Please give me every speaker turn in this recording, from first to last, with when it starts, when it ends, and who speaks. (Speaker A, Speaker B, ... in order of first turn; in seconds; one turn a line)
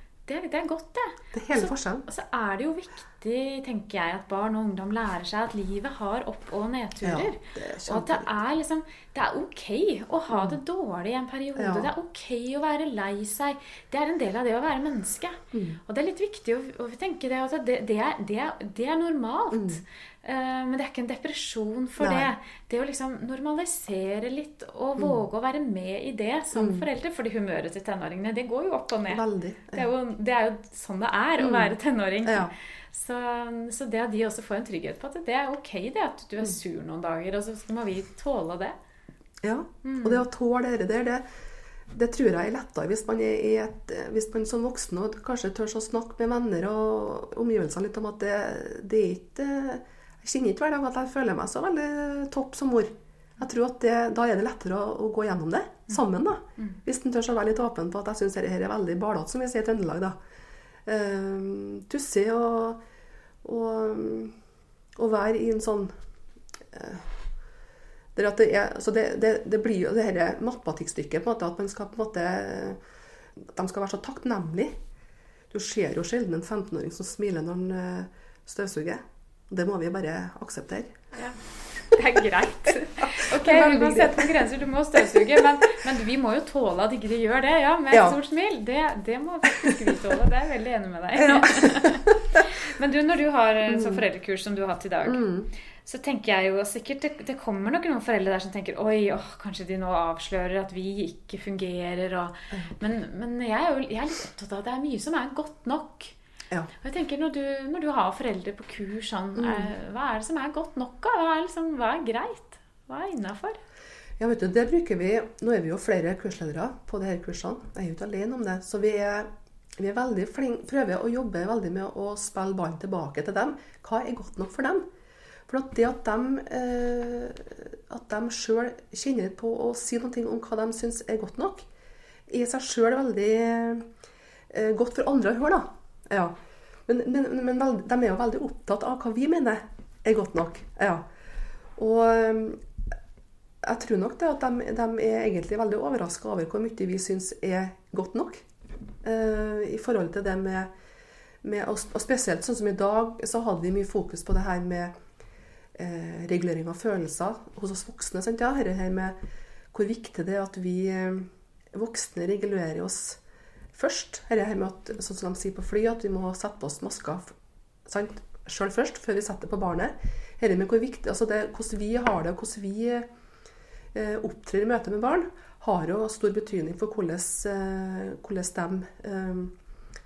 Speaker A: 0.3-38.8
Speaker B: 1.3-2.0
Speaker B: 7.0-8.3
Speaker B: 10.3-10.6
Speaker B: 11.6-11.9
Speaker B: 15.5-15.8
Speaker B: 19.5-19.8
Speaker B: 22.0-22.3
Speaker B: 26.6-26.9
Speaker B: 29.1-29.9
Speaker B: 31.4-32.5
Speaker B: 39.4-41.2
Speaker A: 39.8-40.2
Speaker B: 41.9-60.1
Speaker B: 60.9-62.8
Speaker B: 63.4-64.3
Speaker B: 65.0-65.9
Speaker B: 66.7-67.1
Speaker B: 68.1-72.8
Speaker B: 73.4-74.7
Speaker B: 75.5-80.9
Speaker A: 81.9-95.2
Speaker B: 83.2-84.3
Speaker B: 85.0-85.3
Speaker B: 87.9-88.2
Speaker B: 91.2-92.4
Speaker B: 93.7-94.0
Speaker B: 95.0-95.5
Speaker A: 95.8-106.1
Speaker A: 106.8-113.6
Speaker B: 109.4-109.7
Speaker B: 114.2-124.9
Speaker B: 125.5-131.7
Speaker B: 132.3-133.9
Speaker B: 134.5-136.4
Speaker B: 136.9-141.1
Speaker B: 141.8-142.6
Speaker B: 143.6-148.4
Speaker B: 149.0-150.7
Speaker B: 151.4-154.9
Speaker B: 155.7-159.2
Speaker B: 159.7-163.2
Speaker B: 163.7-173.1
Speaker B: 173.9-179.6